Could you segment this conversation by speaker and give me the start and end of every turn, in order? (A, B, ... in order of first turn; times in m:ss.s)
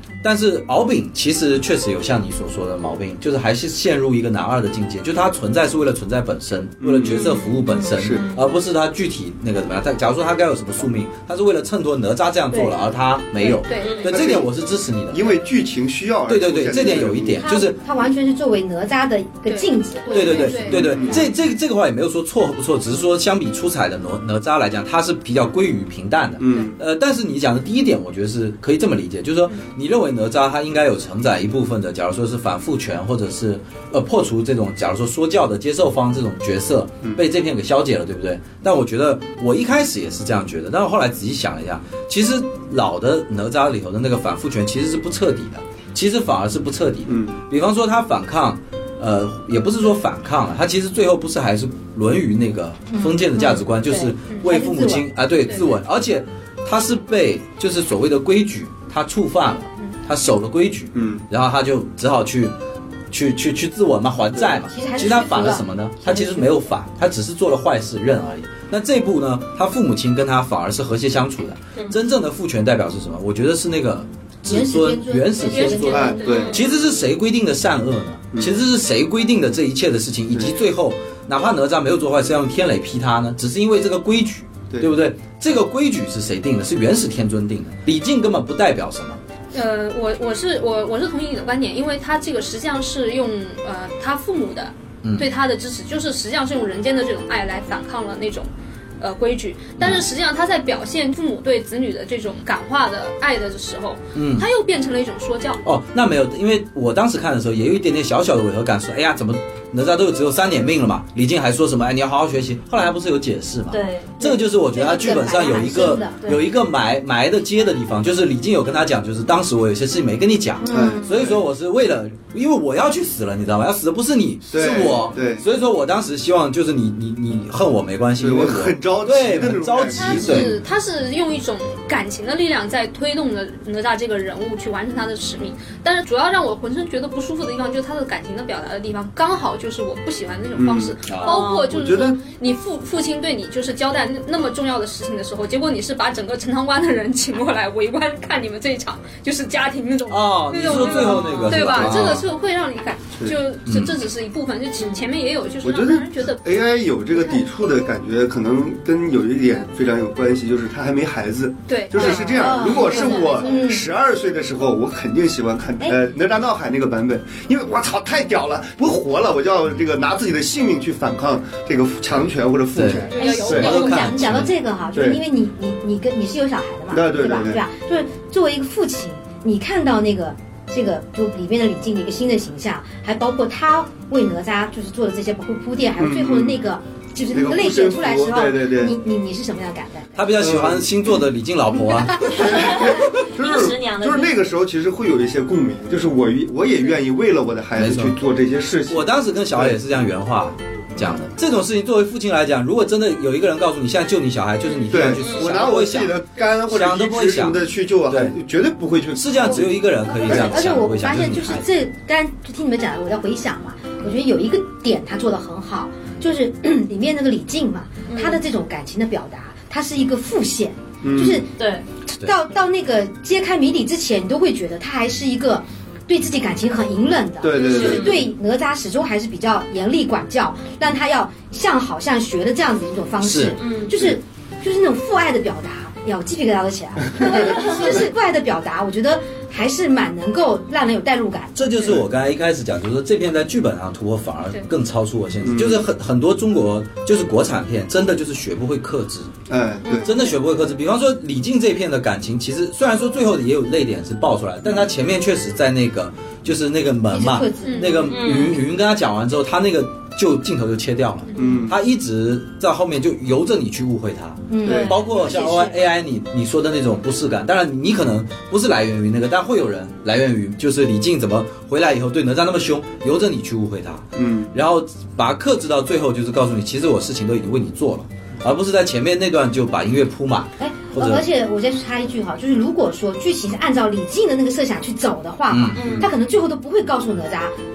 0:00.2-0:15.3 A
0:06.8-0:08.2 B
0:07.1-0:08.5 C
0:12.5-0:12.8 D
0:13.4-0:14.4 E
0:13.8-0:14.1 C
0:14.0-0:14.5 B
0:15.1-0:17.5 B
0:16.3-0:17.8 A
0:17.4-0:20.7 D
0:19.5-0:21.2 E
0:20.1-1:02.5 A
0:20.6-0:21.2 B
0:26.4-0:26.8 B
0:47.1-0:47.4 B
0:52.9-0:55.1 D
1:00.9-1:01.2 B
1:03.1-1:29.2 A
1:04.5-1:06.5 D
1:14.4-1:16.2 D
1:15.4-1:16.7 E
1:15.9-1:16.6 B
1:16.2-1:16.6 C
1:29.5-1:38.5 E
1:35.0-1:35.3 A
1:39.0-1:45.6 E
1:44.1-1:44.5 A
1:45.6-2:10.6 A
1:53.7-1:54.1 C
1:54.2-1:56.2 D
2:00.6-2:01.0 D
2:00.7-2:01.4 B
2:04.5-2:05.4 B
2:08.2-2:10.5 B
2:09.9-2:36.6 E
2:20.5-2:21.0 B
2:21.0-2:21.4 A
2:21.2-2:21.7 C
2:21.6-2:22.2 B
2:30.1-2:32.3 A
2:30.9-2:31.7 C
2:31.7-2:32.2 B
2:33.6-2:34.0 A
2:35.6-2:53.8 B
2:41.7-2:43.6 E
2:42.0-2:42.4 C
2:42.3-2:43.8 D
2:43.0-2:43.3 C
2:52.7-2:54.5 A
2:52.9-2:54.2 E
2:53.1-3:10.2 D
2:54.9-2:55.2 B
2:56.9-2:57.6 B
3:06.0-3:06.6 B
3:07.3-3:09.0 B
3:10.2-3:12.6 A
3:10.4-3:10.9 B
3:12.3-3:19.8 B
3:12.4-3:14.3 C
3:17.8-3:18.2 A
3:18.9-3:28.4 A
3:24.9-3:30.7 B
3:25.2-3:25.6 C
3:29.1-3:31.7 A
3:29.5-3:41.5 D
3:38.1-3:38.4 C
3:41.0-3:41.4 B
3:41.6-3:41.8 C
3:42.1-4:01.7 D
3:47.4-3:48.3 B
3:47.5-3:48.3 C
3:53.2-3:53.6 A
3:53.6-3:54.0 C
3:53.9-3:54.2 B
3:57.2-3:58.1 C
4:01.6-4:09.3 A
4:05.4-4:05.8 B
4:09.5-4:10.1 B
4:10.0-4:41.2 A
4:17.1-4:18.1 D
4:17.6-4:18.3 E
4:18.1-4:18.6 C
4:21.3-4:21.7 E
4:21.4-4:21.8 B
4:24.5-4:25.8 D
4:24.6-4:24.9 B
4:34.1-4:34.5 B
4:40.6-4:47.5 D
4:45.5-4:46.0 A
4:45.7-4:46.1 C